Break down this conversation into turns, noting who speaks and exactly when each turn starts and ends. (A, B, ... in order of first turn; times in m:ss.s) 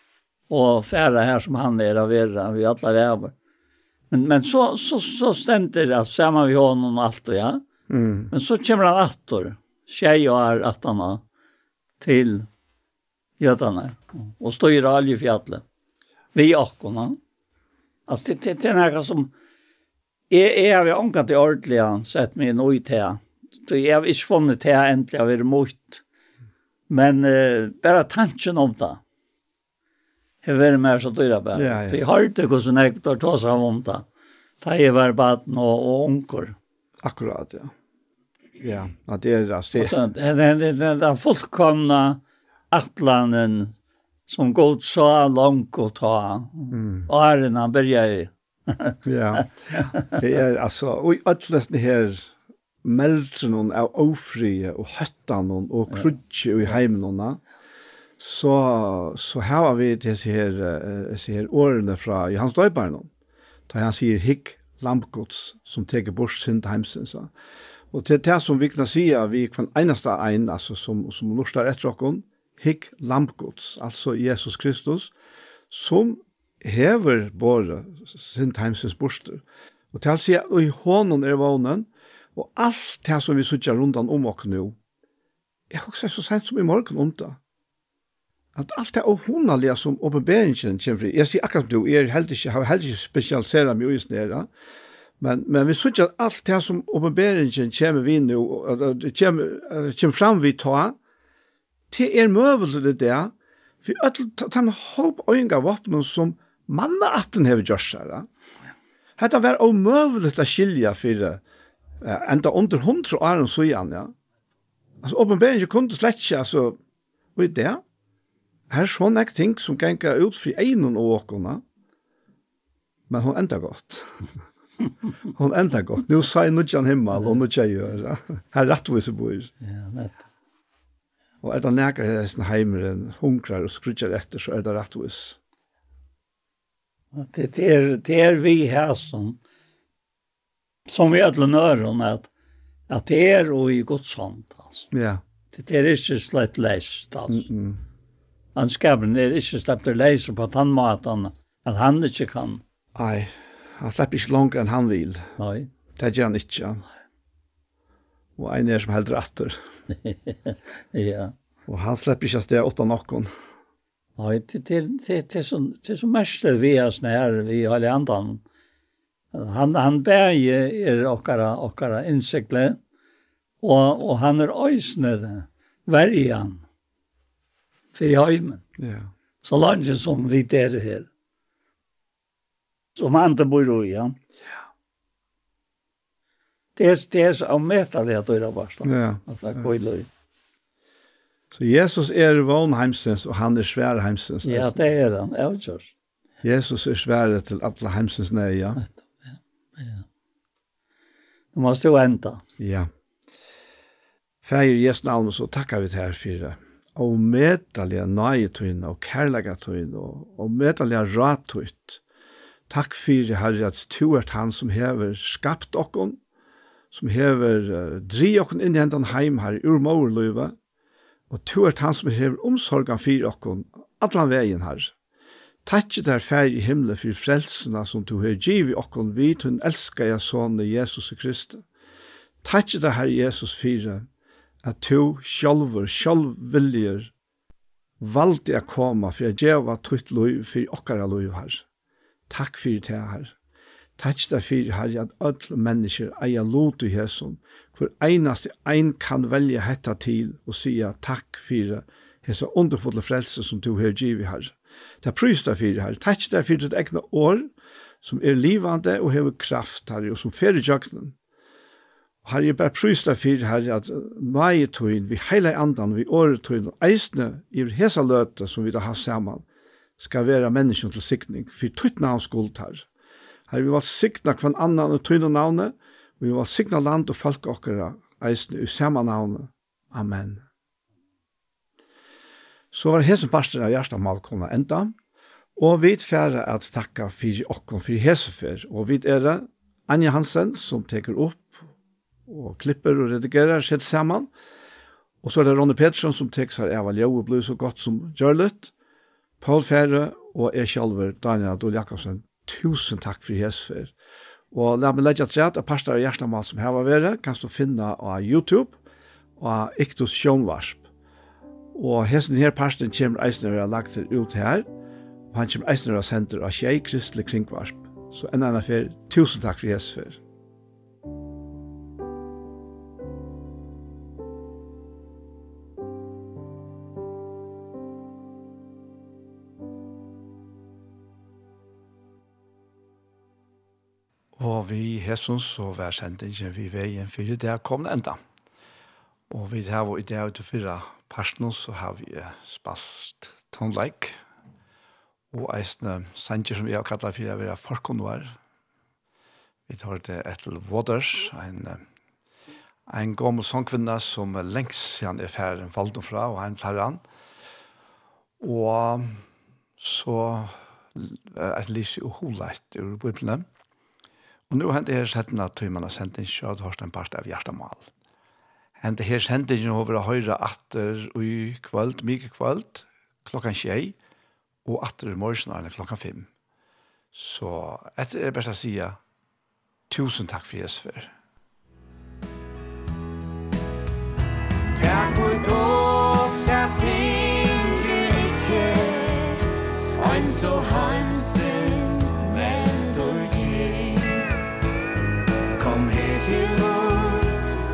0:00.5-0:03.3 A
0:04.1-0:07.6 A
0:07.9-0:08.3 B
0:08.3-0:11.2 A
0:12.0-0:12.5 A
0:13.4-0:15.6 A
0:16.3-0:17.2 A
0:18.1-0:19.3 A
0:20.3-0:26.0 A
0:26.9-0:29.0 A
0:30.4-0:34.0 A
0:31.5-0:32.0 B
0:34.6-0:36.6 A
0:37.0-0:37.7 B
0:38.6-0:40.0 B
0:39.7-0:42.2 A
0:42.7-0:43.7 A
0:44.3-0:50.0 A
0:46.7-0:47.1 B
0:49.0-0:52.3 B
0:52.8-0:57.4 B
0:58.2-1:03.1 B
1:03.7-1:07.3 B
1:07.9-1:15.1 B
1:15.7-1:24.8 B
1:25.7-1:27.4 B
1:28.6-1:34.5 B
1:35.2-1:41.0 B
1:41.9-1:43.3 B
1:43.8-1:48.3 B
1:49.2-1:51.4 B
1:52.0-1:54.1 B
1:55.0-1:56.8 B
1:57.4-1:57.8 B
1:58.7-2:01.6 B
2:03.1-2:04.3 B
2:05.3-2:09.5 B
2:09.6-2:10.2 A
2:11.4-2:15.4 B
2:17.1-2:19.4 A
2:20.9-2:22.3 A
2:22.9-2:24.9 A
2:24.9-2:25.2 B
2:25.5-2:27.5 A
2:27.3-2:27.8 B
2:28.6-2:32.6 A
2:33.0-2:35.3 B
2:35.4-2:35.7 A
2:36.0-2:36.8 B
2:38.4-2:39.6 B
2:40.0-2:41.3 A
2:41.7-2:43.3 B
2:44.2-2:48.4 A
2:49.3-2:52.8 A
2:53.6-2:56.6 A
2:57.9-2:58.6 A
2:58.8-2:59.1 B
2:59.4-3:01.1 A
3:03.0-3:04.2 A
3:06.8-3:10.1 A
3:08.8-3:09.7 B
3:11.5-3:14.8 B
3:14.4-3:15.9 A
3:16.4-3:18.8 B
3:19.2-3:20.0 A
3:21.5-3:22.4 A
3:22.6-3:22.9 B
3:24.4-3:32.0 B
3:32.7-3:36.2 B
3:36.9-3:40.5 B
3:41.3-3:44.9 B
3:45.6-3:51.6 B
3:52.4-3:54.0 B
3:54.6-3:57.1 B
3:58.0-4:01.6 B
4:02.3-4:03.3 B
4:04.0-4:17.5 B
4:18.0-4:21.1 B
4:22.2-4:29.4 B
4:30.0-4:32.8 B
4:33.5-4:40.4 B
4:42.7-4:44.9 B
4:45.6-4:51.6 B
4:52.3-4:54.3 B
4:55.2-4:58.7 B
4:59.4-5:03.9 B
5:04.5-5:08.8 B
5:09.4-5:10.8 B
5:11.7-5:14.7 B
5:15.3-5:20.2 B
5:34.4-5:38.2 B
5:39.3-5:44.2 B
5:45.3-5:48.4 B
5:49.7-5:51.8 B
5:52.9-5:57.0 B
5:58.4-5:59.2 B
5:59.8-6:03.4 B
6:04.5-6:07.9 B
6:08.8-6:14.0 B
6:14.6-6:16.3 B
6:17.1-6:19.0 B
6:19.9-6:21.1 B
6:24.7-6:29.1 C
6:30.0-6:34.1 C
6:35.6-6:37.4 C